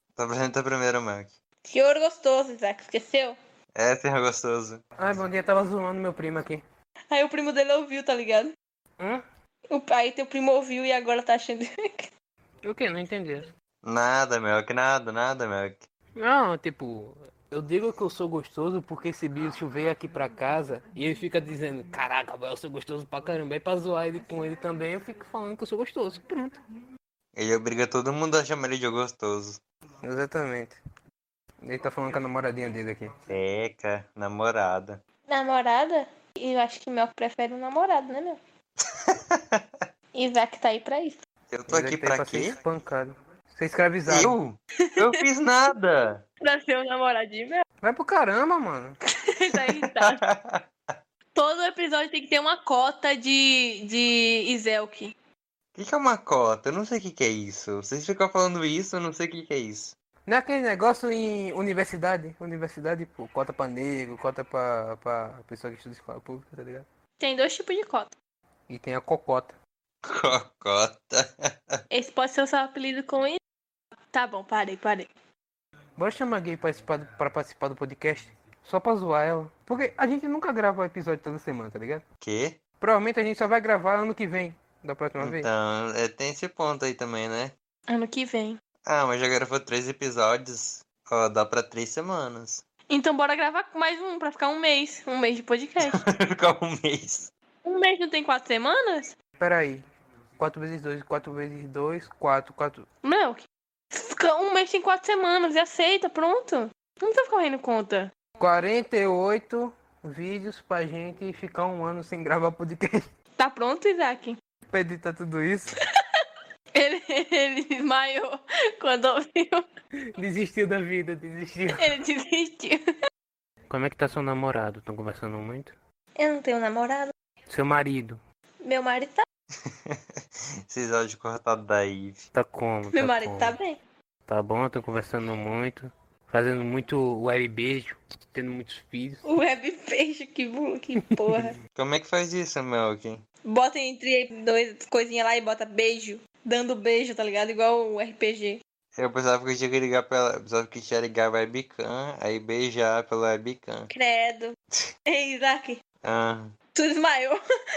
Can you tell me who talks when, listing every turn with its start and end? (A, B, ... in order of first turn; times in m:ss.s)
0:00.2-0:01.3 A
0:01.6-0:03.4 B
0:03.7-0:04.8 A
0:05.0-0:06.6 C
0:07.1-0:08.5 B
0:09.7-0:12.1 B
0:12.6-0:13.5 C
0:13.8-0:15.8 A
0:16.2-0:26.5 C
0:27.3-0:29.6 A
0:30.0-0:30.8 C
0:31.6-0:33.1 C
0:33.3-0:35.0 A
0:35.3-0:38.4 B
0:39.1-0:39.6 A
0:40.1-0:41.2 B
0:41.5-0:42.6 A
0:41.7-0:44.4 C
0:44.1-0:46.2 A
0:46.4-0:47.6 B
0:47.8-0:49.0 C
0:49.3-0:50.2 B
0:49.8-0:50.6 A
0:51.3-0:55.1 B
0:55.7-0:59.9 A
1:00.3-1:06.8 C
1:07.2-1:08.1 B
1:08.7-1:09.6 C
1:10.0-1:11.7 A
1:11.9-1:13.4 B
1:14.1-1:15.1 B
1:16.0-1:22.0 C
1:22.2-1:22.6 A
1:22.8-1:25.5 C
1:25.2-1:27.5 A
1:27.9-1:28.6 B
1:28.8-1:32.6 A
1:32.9-1:36.0 B
1:35.8-1:37.3 A
1:37.6-1:39.1 B
1:39.4-1:39.8 C
1:40.4-1:42.9 C
1:43.0-1:48.1 B
1:48.4-1:53.0 C
1:53.4-1:54.4 B
1:54.7-1:55.8 C
1:55.8-1:59.6 B
2:00.2-2:01.9 C
2:01.7-2:02.8 B
2:03.7-2:05.7 C
2:06.2-2:07.1 B
2:07.5-2:08.2 C
2:08.6-2:09.2 B
2:09.7-2:10.0 A
2:10.7-2:12.3 A
2:12.3-2:13.6 C
2:12.9-2:13.8 B
2:14.3-2:19.2 C
2:19.2-2:21.6 B
2:21.0-2:21.4 C
2:21.7-2:23.2 A
2:23.4-2:28.6 B
2:28.9-2:33.9 A
2:33.9-2:34.5 B
2:35.1-2:35.8 B
2:36.0-2:36.5 A
2:36.7-2:37.4 B